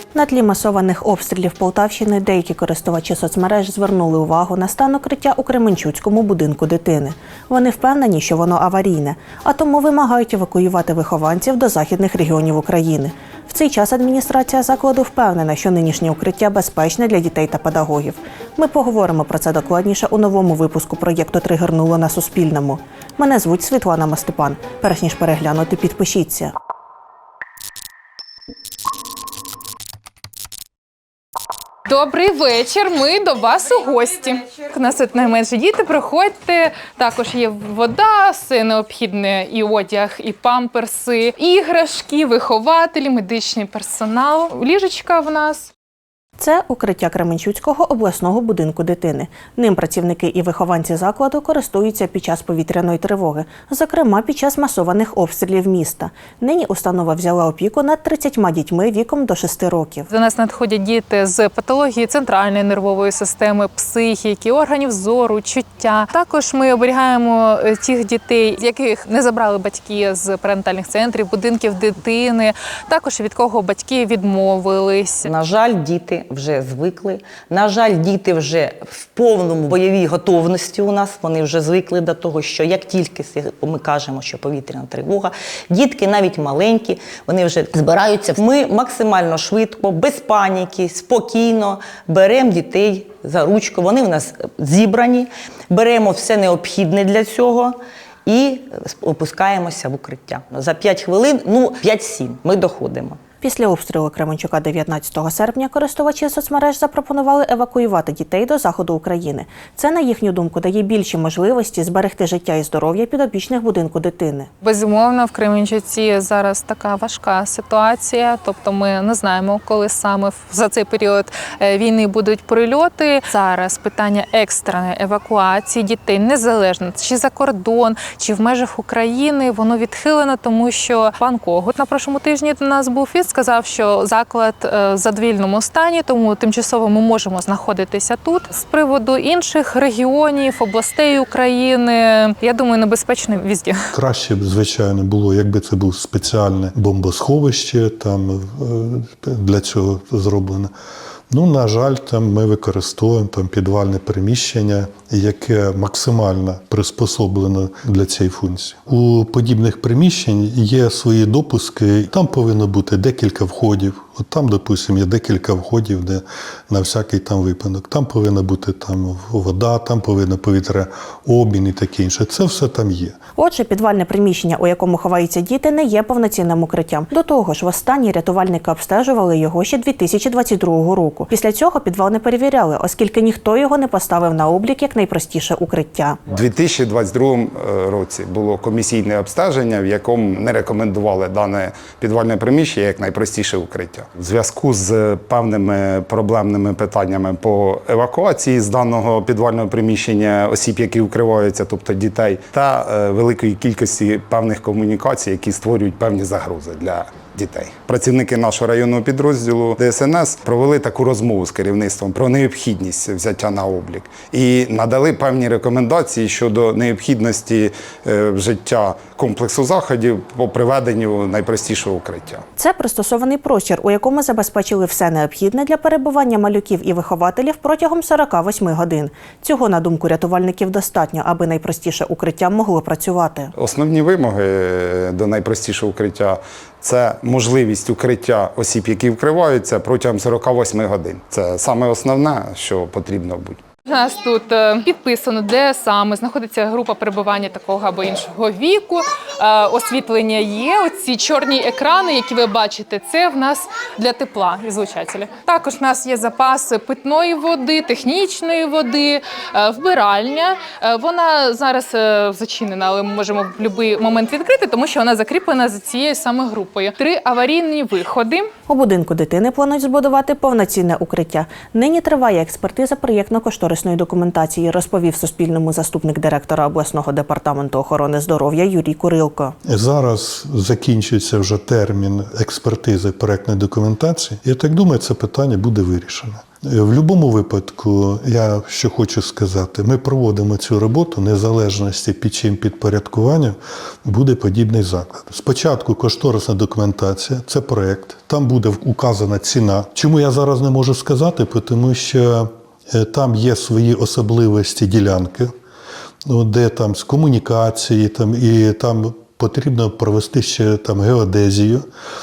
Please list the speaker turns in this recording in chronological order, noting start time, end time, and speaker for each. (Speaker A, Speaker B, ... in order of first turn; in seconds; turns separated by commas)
Speaker A: 0.1-26.5, Speaker B: 31.9-45.7, Speaker A: 46.4-60.1, Speaker B: 60.1-75.3, Speaker C: 75.2-103.2, Speaker A: 103.4-114.5, Speaker B: 114.6-143.8, Speaker D: 143.9-150.7, Speaker D: 151.3-173.2, Speaker A: 173.4-186.2, Speaker E: 186.3-222.4, Speaker A: 222.6-233.5, Speaker E: 233.6-243.6, Speaker B: 243.8-268.4, Speaker A: 268.7-279.5, Speaker D: 279.6-305.5, Speaker D: 306.2-311.8